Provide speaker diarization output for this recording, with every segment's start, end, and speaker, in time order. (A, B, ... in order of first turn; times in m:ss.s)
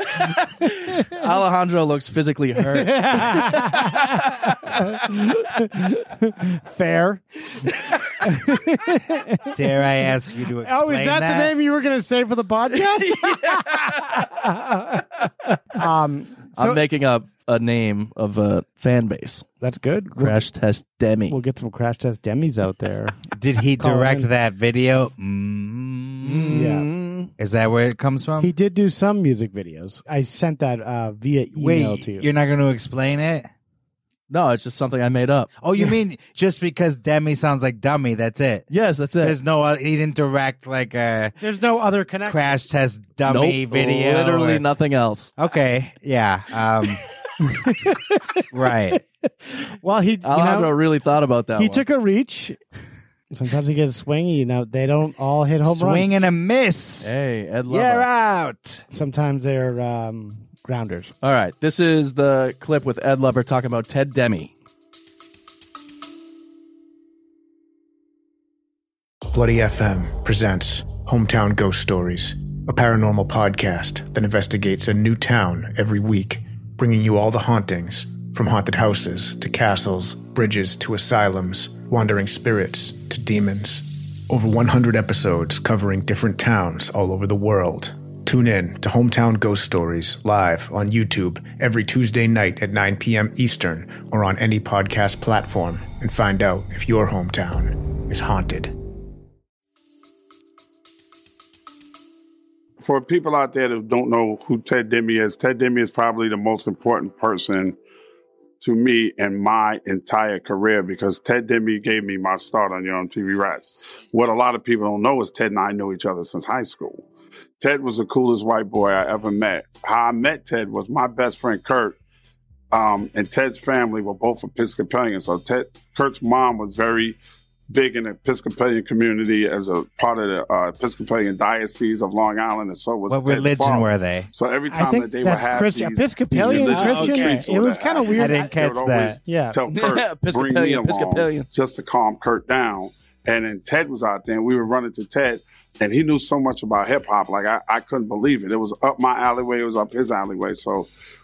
0:00.6-0:03.9 A
0:02.8-0:07.2 B
0:08.2-0:09.5 B
0:09.5-0:11.5 C
0:10.6-0:15.0 B
0:13.1-0:14.2 A
0:15.8-0:16.8 B
0:16.6-0:19.4 A
0:19.6-0:20.4 B
0:20.2-0:21.4 A
0:21.3-0:23.2 B
0:23.3-0:26.7 C
0:23.8-0:24.3 B
0:26.2-0:27.3 A
0:26.5-0:26.9 B
0:27.4-0:28.5 C
0:28.4-0:32.2 B
0:31.6-0:33.5 C
0:34.3-0:35.5 A
0:35.6-0:38.7 C
0:38.7-0:39.4 A
0:39.2-0:41.3 C
0:41.4-0:42.6 B
0:42.2-0:44.6 C
0:43.3-0:45.3 A
0:45.4-0:47.0 C
0:47.4-0:48.4 B
0:48.5-0:49.0 C
0:49.5-0:50.7 B
0:50.2-0:51.8 A
0:51.6-0:52.6 B
0:53.3-0:56.1 B
0:55.6-0:57.1 C
0:57.0-0:58.1 A
0:57.7-0:58.8 C
0:58.9-1:01.1 B
1:01.2-1:04.5 A
1:09.3-1:38.7 D
1:42.8-1:47.8 E
1:48.6-1:57.0 E
1:57.6-2:02.0 E
2:02.7-2:07.2 E
2:07.7-2:30.9 E
2:13.1-2:14.3 C
2:14.7-2:18.5 B
2:16.4-2:19.2 C
2:19.2-2:19.6 B
2:19.7-2:21.5 A